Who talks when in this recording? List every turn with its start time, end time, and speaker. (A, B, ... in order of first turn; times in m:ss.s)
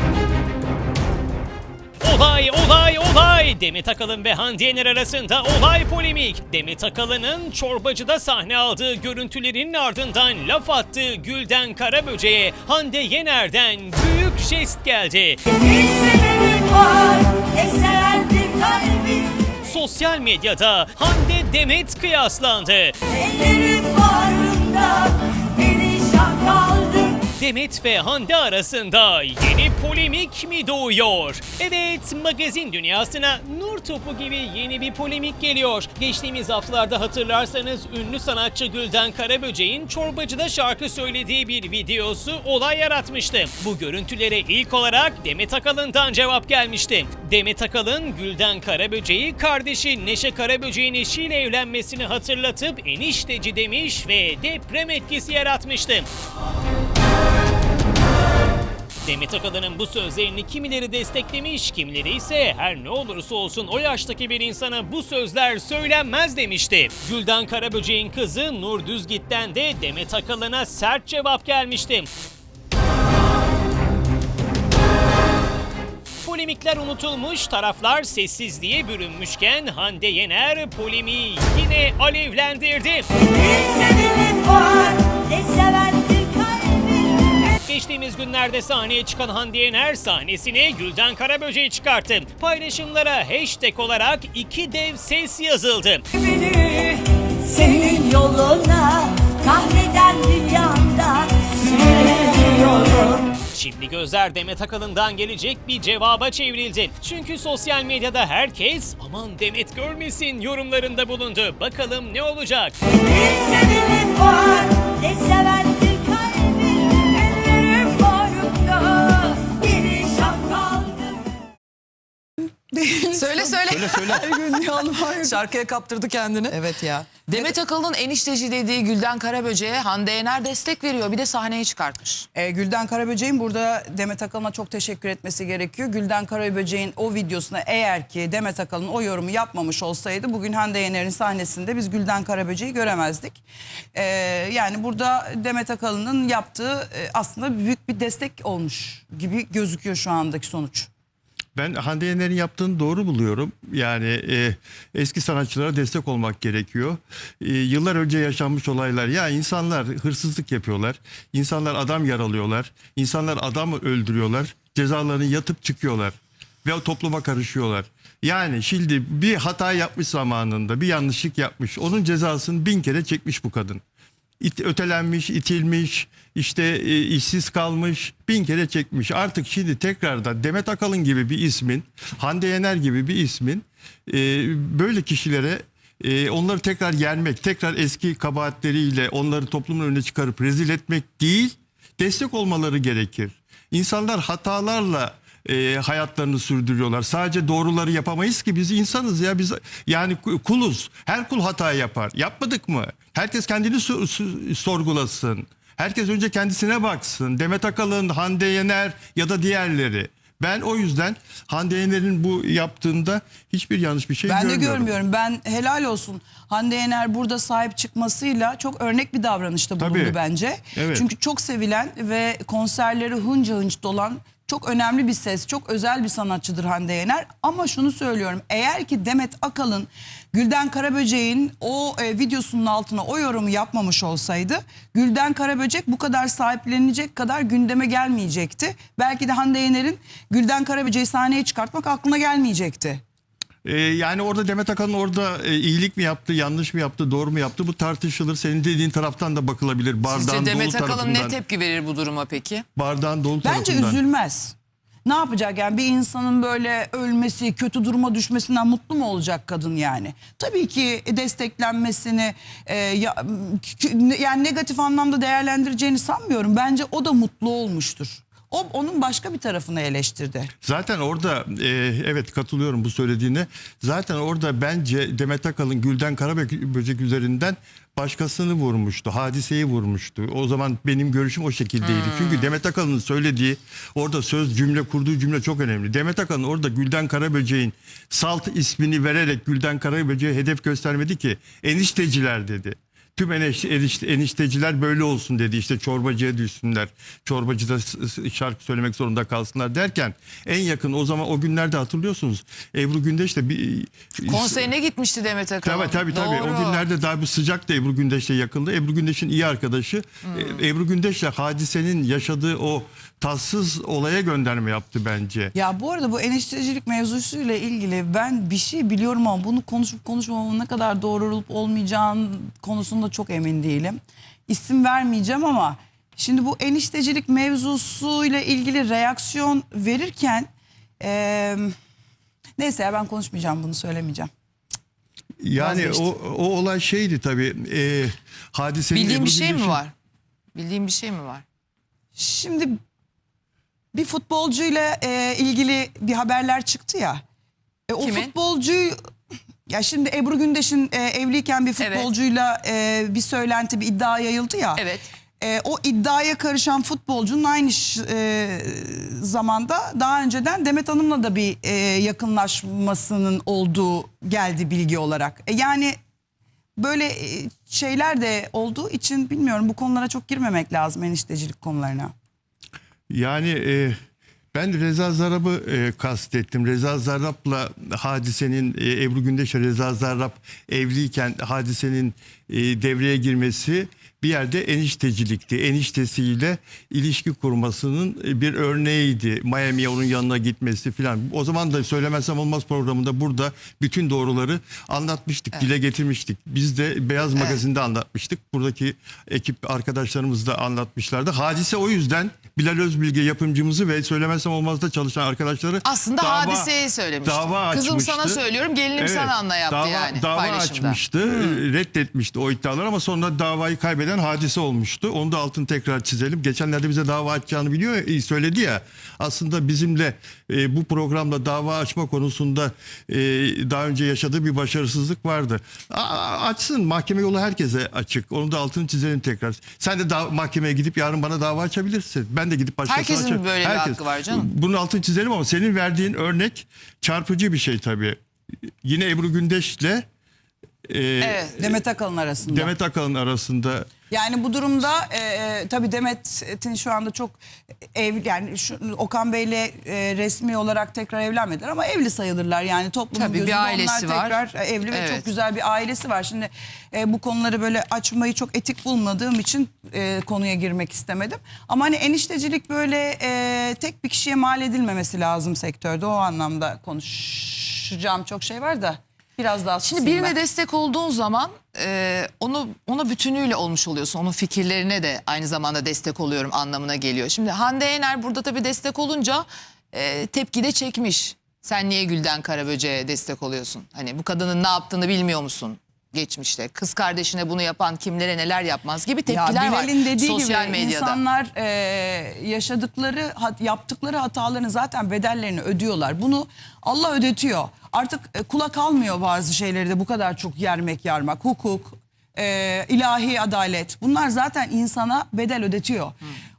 0:02.0-0:15.4 A
0:15.5-0:19.6 B
0:19.6-0:23.0 A
0:23.1-0:27.3 B
0:27.3-0:56.1 A
0:59.1-1:12.1 A
1:16.2-1:23.1 A
1:23.2-1:27.4 B
1:27.5-1:36.1 A
1:36.1-1:43.3 B
1:43.5-1:52.8 A
1:52.9-2:01.2 B
2:02.7-2:05.4 C
2:03.1-2:04.6 D
2:03.8-2:04.2 E
2:05.2-2:06.6 D
2:06.5-2:07.5 C
2:07.3-2:12.3 D
2:12.4-2:23.4 C
2:23.9-2:30.9 C
2:31.6-2:53.8 E
2:54.4-3:34.9 E
3:34.3-4:03.0 C
3:39.8-3:40.2 E
3:40.8-3:41.1 E
4:03.6-4:11.4 E
4:10.1-4:12.7 D
4:12.8-4:14.0 E
4:13.4-4:30.5 C
4:30.6-5:04.7 E
4:41.8-4:42.5 D
5:04.2-5:06.8 D
5:05.6-5:15.5 E
5:10.3-5:10.6 D
5:15.5-5:30.5 C
5:31.0-5:31.7 C
5:32.6-5:34.3 C
5:35.4-5:39.8 E
5:35.6-5:36.0 C
5:38.9-5:39.9 D
5:40.6-5:41.4 D
5:42.2-5:42.8 C
5:43.9-5:47.2 C
5:47.9-5:49.0 C
5:48.0-5:48.3 D
5:49.7-5:54.8 C
5:51.8-5:52.1 D
5:54.8-5:55.1 D
5:55.4-6:06.0 C
6:06.8-6:12.1 C
6:13.1-6:14.0 E
6:14.5-7:18.2 E
6:37.4-6:37.6 D
6:45.8-6:51.6 D
7:12.9-7:14.5 D
7:18.8-7:20.0 E
7:20.9-7:21.8 E
7:21.2-7:21.6 D
7:21.6-7:22.7 C
7:22.4-7:23.9 E
7:24.1-7:27.4 C
7:27.9-7:50.4 C
7:33.1-7:34.4 D
7:34.9-7:35.3 D
7:49.8-8:11.2 D
8:09.3-8:26.2 C